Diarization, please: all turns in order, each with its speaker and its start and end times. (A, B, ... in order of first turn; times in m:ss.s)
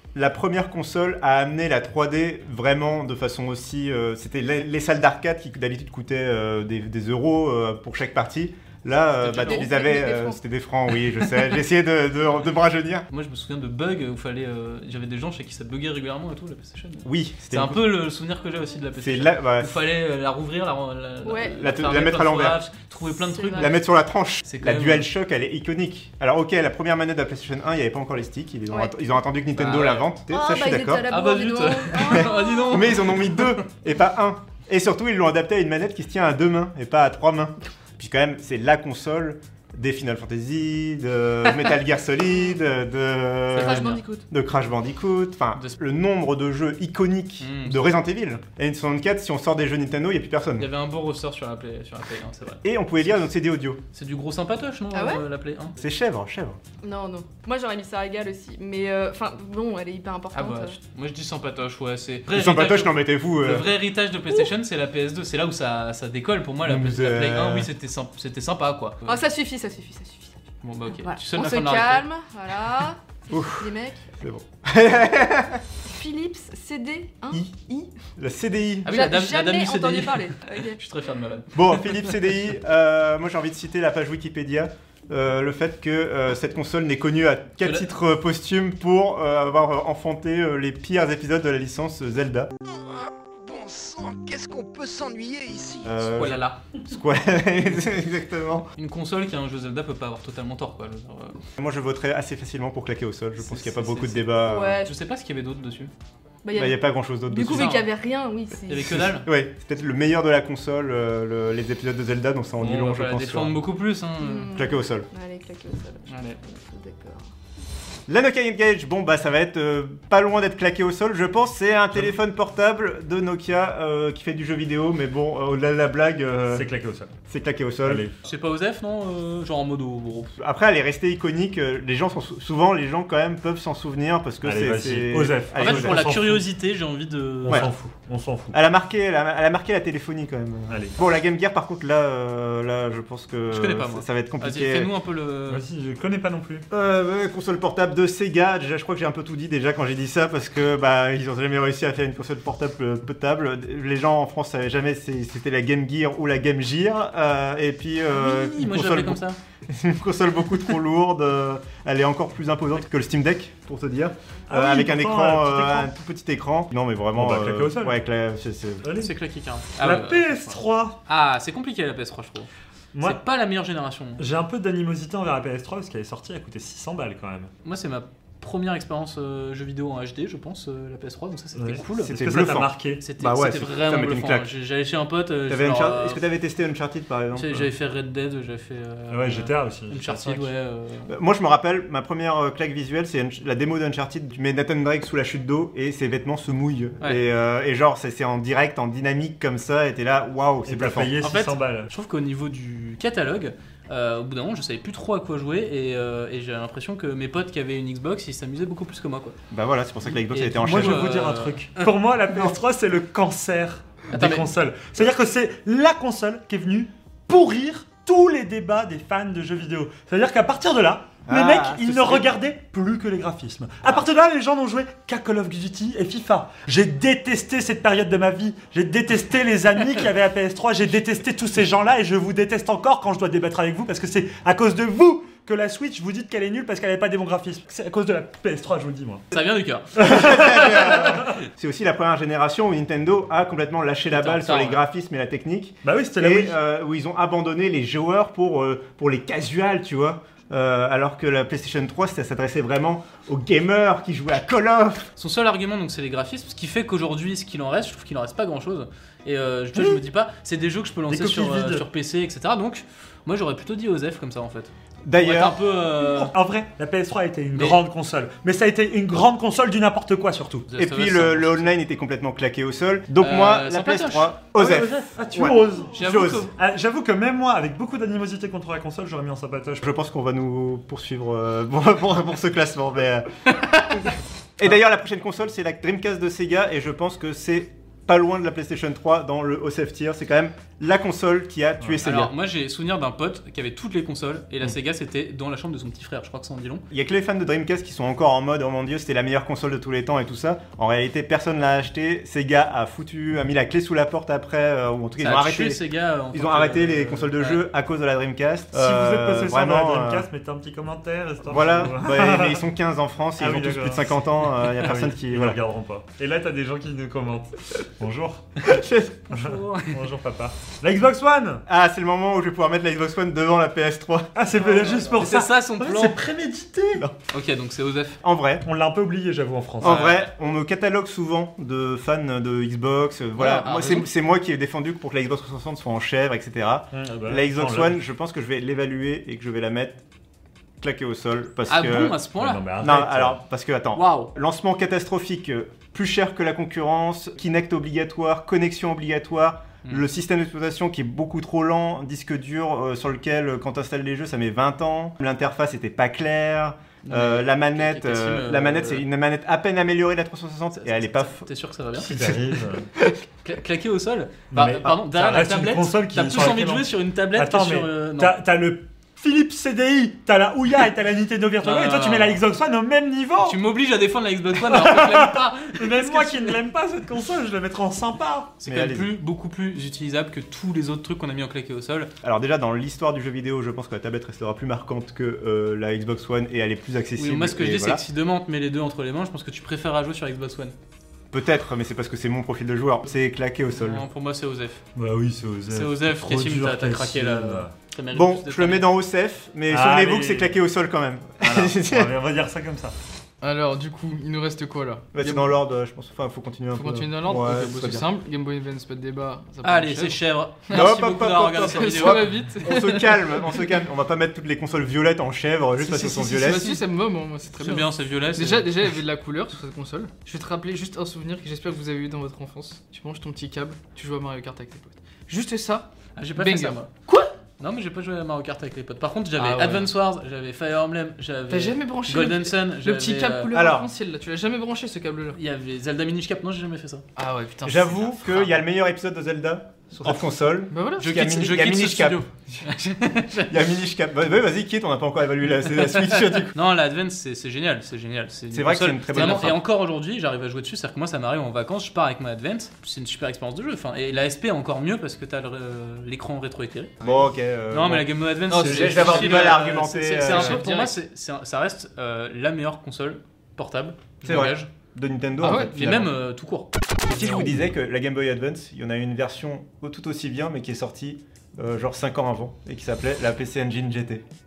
0:00.2-0:13.1 A
0:09.2-0:09.9 B
0:09.3-0:10.4 C
0:13.1-0:23.8 B
0:17.0-0:18.0 A
0:19.0-0:19.8 A
0:21.2-0:21.6 C
0:21.6-0:22.6 A
0:23.1-0:23.7 C
0:23.5-0:31.1 A
0:24.4-0:25.1 B
0:29.6-0:30.1 B
0:30.3-0:33.0 C
0:31.0-0:33.6 B
0:32.0-0:50.7 A
0:43.5-0:44.0 B
0:43.6-0:44.2 C
0:47.4-0:48.0 B
0:50.6-0:52.6 B
0:52.6-0:53.8 A
0:53.9-0:55.8 B
0:54.9-0:55.2 C
0:55.8-0:56.6 A
0:56.8-1:00.8 C
1:00.3-1:09.2 B
1:02.3-1:03.7 A
1:06.6-1:07.7 A
1:09.0-1:10.4 C
1:10.6-1:12.1 B
1:11.0-1:14.0 C
1:13.3-1:15.6 A
1:15.9-1:17.9 C
1:17.3-1:17.6 A
1:18.2-1:19.1 A
1:18.8-1:20.8 C
1:18.8-1:22.0 B
1:21.5-1:32.5 A
1:27.6-1:27.9 B
1:32.8-1:36.1 D
1:35.8-1:38.7 A
1:36.1-1:36.6 B
1:38.8-1:41.4 B
1:41.6-1:44.8 A
1:43.4-1:45.9 B
1:44.4-1:44.9 C
1:46.4-1:49.1 C
1:46.6-1:47.8 A
1:47.4-1:47.9 B
1:48.7-1:49.3 B
1:48.9-1:53.6 A
1:52.6-1:54.5 B
1:54.2-1:57.3 C
1:54.6-1:55.1 A
1:56.1-1:56.4 B
1:58.1-2:06.7 A
2:06.5-2:07.1 E
2:07.3-2:08.0 A
2:07.8-2:08.1 E
2:08.2-2:10.3 B
2:10.4-2:16.1 A
2:14.4-2:16.5 E
2:15.6-2:17.7 B
2:17.4-2:18.6 E
2:18.5-2:24.9 A
2:20.7-2:21.0 E
2:23.5-2:25.6 B
2:25.5-2:26.7 E
2:26.7-2:48.9 A
2:38.1-2:39.4 B
2:44.5-2:45.9 E
2:47.2-2:48.0 E
2:48.8-2:49.1 E
2:49.0-2:52.5 B
2:49.8-2:51.0 E
2:52.9-2:53.2 E
2:53.0-2:54.2 B
2:54.2-2:57.5 E
2:57.6-3:02.2 B
3:01.6-3:03.0 E
3:02.0-3:04.5 A
3:03.0-3:06.2 B
3:05.5-3:07.5 A
3:07.3-3:11.1 B
3:09.1-3:10.5 E
3:11.1-3:21.2 A
3:20.6-3:21.9 E
3:21.2-3:29.4 B
3:29.5-3:31.3 A
3:30.3-3:31.9 B
3:30.6-3:59.3 E
3:34.1-3:34.5 B
3:41.3-3:42.4 A
3:59.3-4:00.7 B
4:00.0-4:01.3 E
4:00.0-4:15.1 A
4:04.1-4:04.8 B
4:05.8-4:06.6 E
4:15.2-4:26.3 B
4:21.1-4:21.8 E
4:25.0-4:25.6 A
4:26.2-4:30.7 E
4:27.6-4:27.8 B
4:30.7-4:31.7 B
4:30.8-4:36.5 A
4:33.2-4:34.4 B
4:34.6-4:39.9 E
4:35.9-4:36.5 B
4:39.8-4:43.3 A
4:44.6-4:52.3 A
4:52.0-4:56.8 B
4:56.9-5:10.3 A
5:05.2-5:07.6 B
5:08.7-5:12.6 E
5:11.5-5:15.6 A
5:13.4-5:18.5 E
5:18.6-5:19.2 A
5:19.3-5:20.0 B
5:19.3-5:21.6 E
5:21.7-5:24.3 A
5:24.4-5:27.1 E
5:24.6-5:26.2 B
5:27.3-5:28.2 B
5:28.2-5:28.7 A
5:28.6-5:30.1 E
5:29.8-5:40.0 A
5:29.8-5:30.3 B
5:33.4-5:34.1 B
5:36.9-5:38.0 E
5:40.8-5:42.2 A
5:41.7-5:42.7 B
5:42.3-5:43.4 E
5:42.8-6:01.5 A
5:44.0-5:44.3 B
5:57.0-5:59.0 B
6:00.8-6:02.1 B
6:02.0-6:02.9 E
6:03.4-6:08.4 B
6:04.5-6:13.6 E
6:11.6-6:12.4 B
6:13.4-6:16.6 B
6:14.6-6:18.5 E
6:18.6-6:22.1 B
6:18.6-6:19.1 A
6:22.2-6:28.0 A
6:27.2-6:30.8 B
6:31.3-6:34.0 A
6:33.8-6:34.8 B
6:35.0-6:37.7 E
6:35.7-6:38.9 B
6:38.1-6:42.1 A
6:39.7-6:40.6 E
6:41.4-6:43.0 E
6:43.4-6:45.5 F
6:45.1-6:48.1 A
6:46.7-6:50.9 F
6:49.6-6:52.3 B
6:50.7-6:56.8 A
6:51.6-6:53.6 F
6:55.8-7:07.3 F
6:57.6-6:58.9 B
7:06.2-7:06.9 B
7:07.6-7:13.5 B
7:09.4-7:09.9 F
7:11.5-7:15.4 F
7:13.5-7:13.9 A
7:15.3-7:17.0 B
7:17.2-7:18.5 F
7:17.6-7:22.2 A
7:20.0-7:20.2 B
7:20.7-7:21.1 F
7:21.0-7:23.5 B
7:22.6-7:22.9 F
7:23.5-7:26.6 A
7:26.1-7:37.1 B
7:28.5-7:29.6 A
7:37.0-7:40.8 A
7:37.7-7:44.7 B
7:38.5-7:40.9 F
7:44.2-7:46.1 A
7:45.4-7:45.7 F
7:45.4-7:46.7 B
7:47.1-7:54.2 A
7:47.2-7:47.5 F